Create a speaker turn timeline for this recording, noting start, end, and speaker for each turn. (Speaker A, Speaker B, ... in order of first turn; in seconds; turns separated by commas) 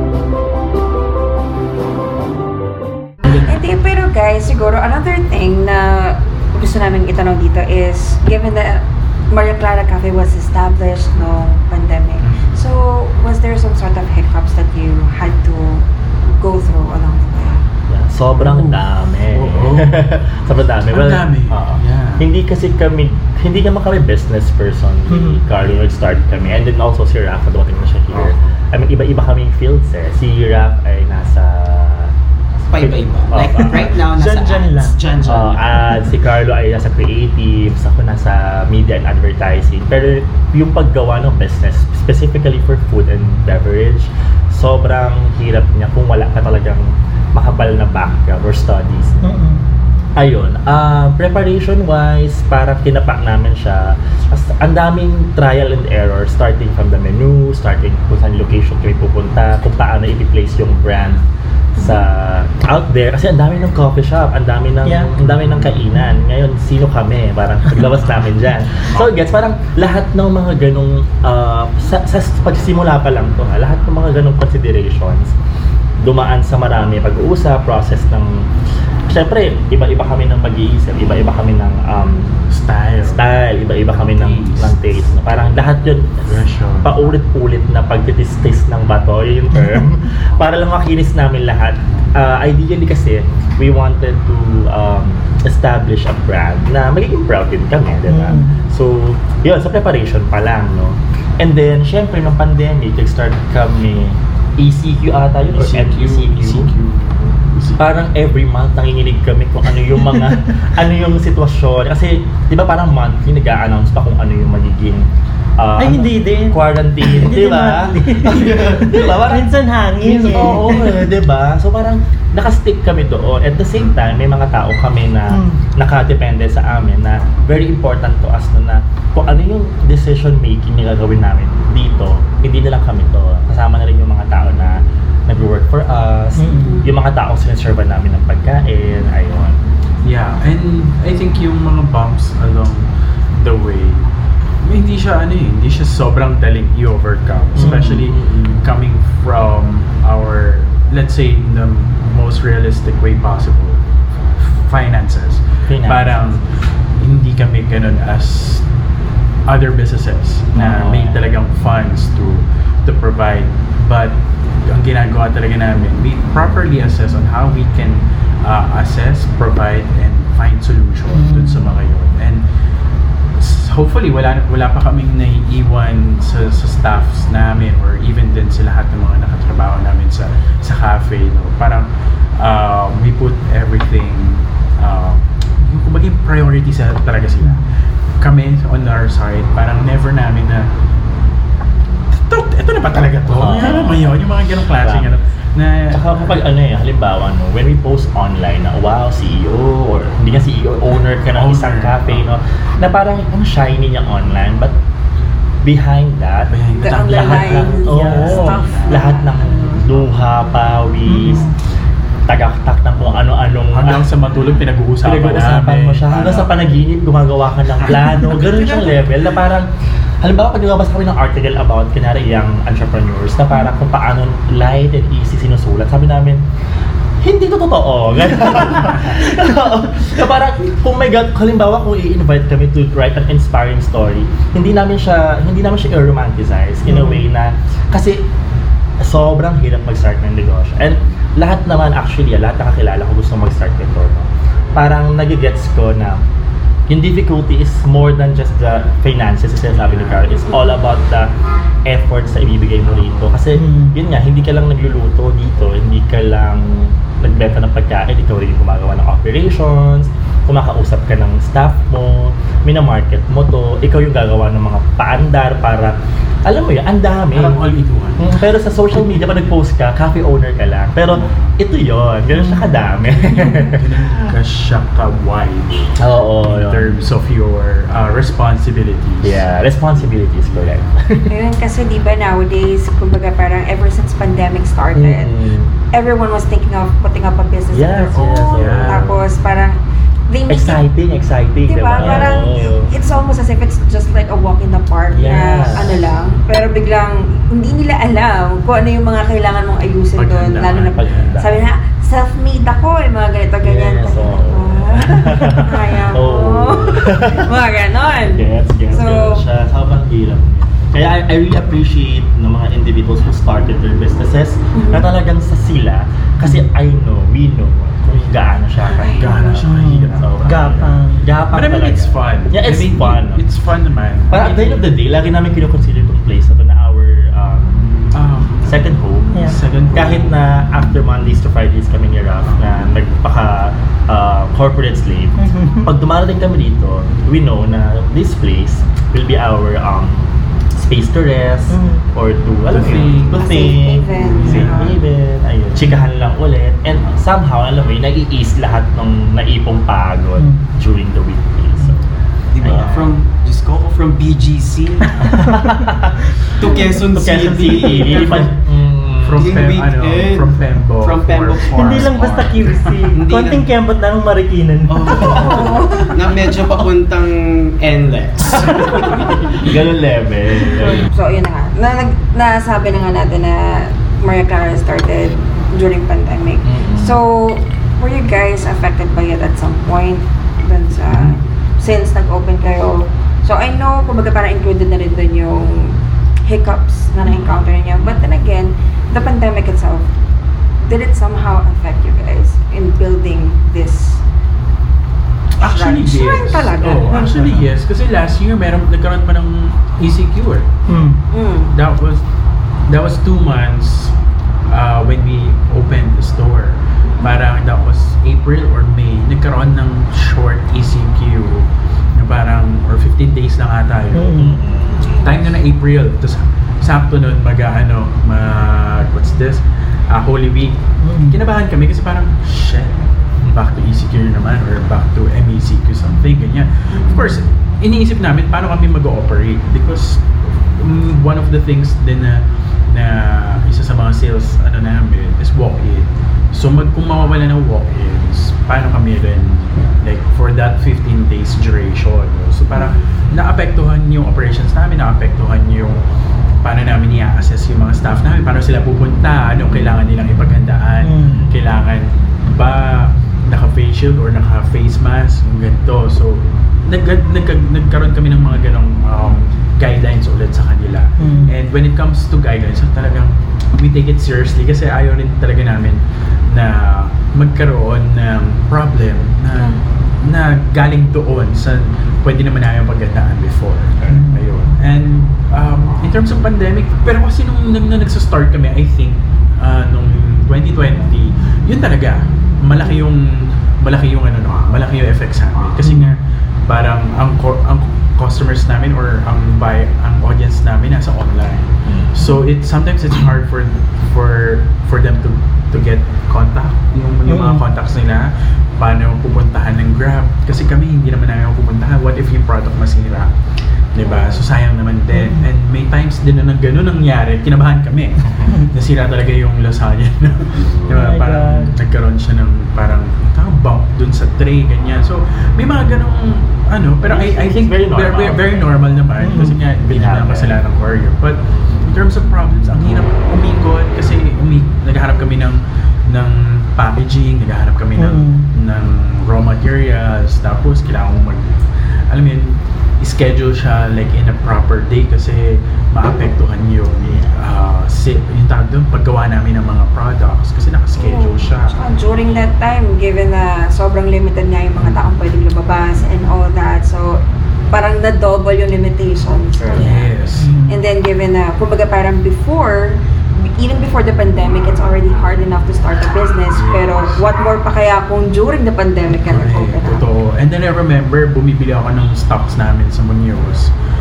Speaker A: 3.4-17.6, Speaker B: 12.2-12.6, Speaker C: 17.9-32.1, Speaker B: 18.4-18.8, Speaker B: 19.3-20.1, Speaker B: 20.9-22.3, Speaker D: 25.1-25.4, Speaker B: 28.1-28.6, Speaker E: 32.7-35.7, Speaker C: 32.8-33.9, Speaker D: 34.1-35.0, Speaker C: 35.2-49.2, Speaker D: 49.2-49.6, Speaker C: 50.2-61.2, Speaker C: 61.8-75.3, Speaker D: 64.8-65.1, Speaker B: 65.2-65.8, Speaker B: 67.7-68.4, Speaker B: 68.9-69.2, Speaker C: 76.0-78.5, Speaker C: 79.1-82.4, Speaker B: 82.5-83.3, Speaker C: 83.0-86.3, Speaker B: 84.0-84.7, Speaker B: 86.3-87.1, Speaker C: 86.8-106.7, Speaker D: 98.1-98.6, Speaker B: 105.5-107.9, Speaker C: 107.8-139.6, Speaker D: 115.8-120.8, Speaker D: 125.3-125.6, Speaker D: 136.4-136.8, Speaker B: 140.0-144.1, Speaker B: 144.6-153.8, Speaker C: 147.6-148.6, Speaker D: 147.6-147.9, Speaker B: 154.3-156.4, Speaker C: 155.7-156.2, Speaker B: 157.0-158.7, Speaker B: 159.5-172.4, Speaker C: 160.5-161.3, Speaker D: 171.1-171.7, Speaker B: 173.4-181.9, Speaker B: 182.4-187.7, Speaker D: 187.4-187.7, Speaker B: 188.2-190.7, Speaker B: 192.1-196.4, Speaker C: 193.3-195.2, Speaker C: 195.9-204.8, Speaker B: 201.3-202.2, Speaker C: 205.6-211.5, Speaker B: 206.5-209.1, Speaker A: 206.8-209.3, Speaker D: 207.9-208.4, Speaker D: 211.1-211.5, Speaker C: 212.3-214.1, Speaker B: 213.7-216.7, Speaker C: 215.0-219.7, Speaker C: 220.2-226.4, Speaker C: 227.2-238.3, Speaker D: 236.9-237.3, Speaker C: 239.0-246.2, Speaker C: 246.9-251.3, Speaker C: 251.8-267.6, Speaker D: 253.6-254.0, Speaker B: 267.3-268.4, Speaker C: 268.2-274.3, Speaker B: 273.2-279.4, Speaker C: 276.0-277.1, Speaker C: 279.2-281.3, Speaker A: 281.3-285.3, Speaker C: 284.9-285.7, Speaker A: 285.9-289.8, Speaker C: 287.7-289.2, Speaker B: 288.5-289.1, Speaker A: 290.3-290.9, Speaker C: 290.5-292.9, Speaker A: 291.7-309.4, Speaker B: 292.0-292.2, Speaker C: 295.1-296.1, Speaker B: 300.1-301.5, Speaker C: 300.7-301.7, Speaker C: 303.6-307.5, Speaker C: 308.3-323.4, Speaker A: 314.8-315.1, Speaker B: 318.1-320.9, Speaker A: 319.0-319.6, Speaker D: 319.6-321.2, Speaker B: 321.5-324.9, Speaker C: 324.3-327.9, Speaker B: 328.1-328.8, Speaker C: 328.6-329.3, Speaker B: 329.4-330.4, Speaker C: 329.9-352.1, Speaker D: 335.4-335.9, Speaker D: 341.7-342.1, Speaker B: 342.7-343.6, Speaker A: 343.3-345.0, Speaker B: 344.2-344.9, Speaker D: 350.4-350.6, Speaker E: 352.5-355.1, Speaker C: 352.6-353.2, Speaker C: 355.2-359.6, Speaker E: 356.6-358.5, Speaker B: 358.1-358.5, Speaker B: 359.2-362.5, Speaker E: 359.4-362.2, Speaker D: 361.7-365.4, Speaker C: 362.2-362.6, Speaker E: 363.1-363.7, Speaker E: 364.9-369.3, Speaker C: 365.2-365.8, Speaker A: 365.2-366.1, Speaker C: 369.0-371.1, Speaker A: 371.0-390.1, Speaker C: 376.6-377.2, Speaker C: 381.1-381.4, Speaker A: 390.9-394.2, Speaker A: 395.6-397.6, Speaker B: 395.6-400.7, Speaker D: 400.9-401.2, Speaker A: 401.3-401.7, Speaker B: 401.7-402.2, Speaker B: 402.9-404.1, Speaker B: 404.7-414.5, Speaker D: 414.1-414.6, Speaker C: 414.4-415.2, Speaker B: 415.1-420.8, Speaker D: 421.0-421.4, Speaker B: 421.3-430.2, Speaker A: 426.9-427.4, Speaker B: 430.8-446.0, Speaker B: 446.6-503.3, Speaker D: 451.0-451.4, Speaker D: 461.2-461.5, Speaker D: 474.1-474.5, Speaker D: 485.9-486.1, Speaker C: 491.9-492.3, Speaker D: 497.3-497.6, Speaker B: 503.9-531.4, Speaker D: 505.1-505.4, Speaker D: 508.4-508.7, Speaker D: 510.9-511.7, Speaker C: 517.0-518.7, Speaker D: 519.2-519.6, Speaker C: 519.8-520.6, Speaker D: 528.0-528.5, Speaker B: 532.1-541.8, Speaker C: 537.0-537.3, Speaker A: 541.0-550.1, Speaker B: 549.7-550.5, Speaker D: 550.4-550.8, Speaker A: 550.7-560.1, Speaker B: 556.5-557.2, Speaker B: 559.2-563.7